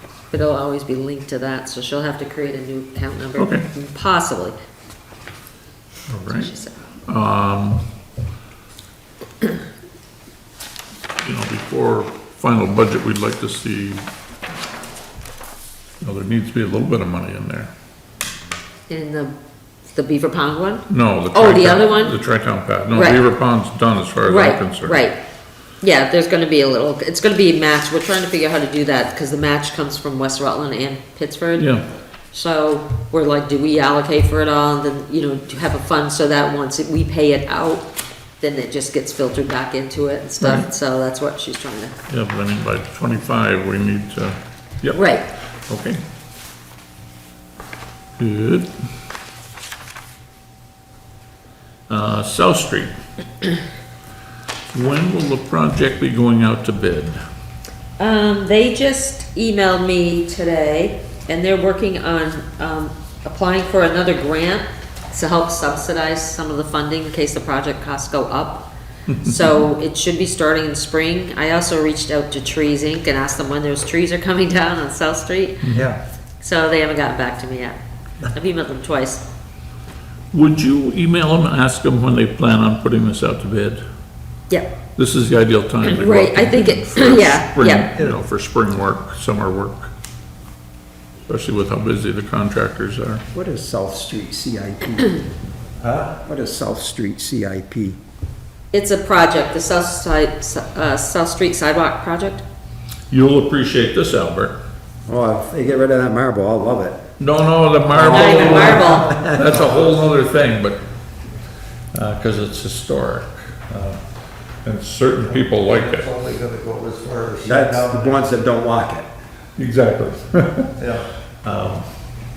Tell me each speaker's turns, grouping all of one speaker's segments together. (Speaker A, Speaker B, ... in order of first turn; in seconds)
Speaker A: 0.3-4.5, 6.3-6.8, 18.9-19.3, 19.9-22.1, 22.9-23.2, 24.2-25.2, 25.8-31.7, 32.3-37.9, 38.4-41.9, 44.9-45.3, 58.0-68.7, 69.2-75.6, 76.4-79.2, 85.8-87.9, 98.7-102.4, 108.0-109.2
Speaker B: 3.4-3.7, 6.1-6.5, 7.1-7.8, 11.2-14.0, 16.0-17.7, 20.9-25.1, 31.6-31.8, 40.4-40.7, 42.1-45.0, 45.7-46.0, 48.2-48.7, 51.9-52.9, 54.7-57.2, 80.3-83.8, 85.0-89.9, 91.3-93.2, 103.1-104.6, 107.2-110.8, 111.9-114.0, 114.6-116.1, 119.6-120.7, 121.4-121.9
Speaker C: 75.7-76.0, 88.0-88.2, 107.9-110.0, 115.3-118.3, 120.8-121.1
Speaker D: 93.3-95.2, 96.0-98.0, 105.1-107.0, 117.5-119.1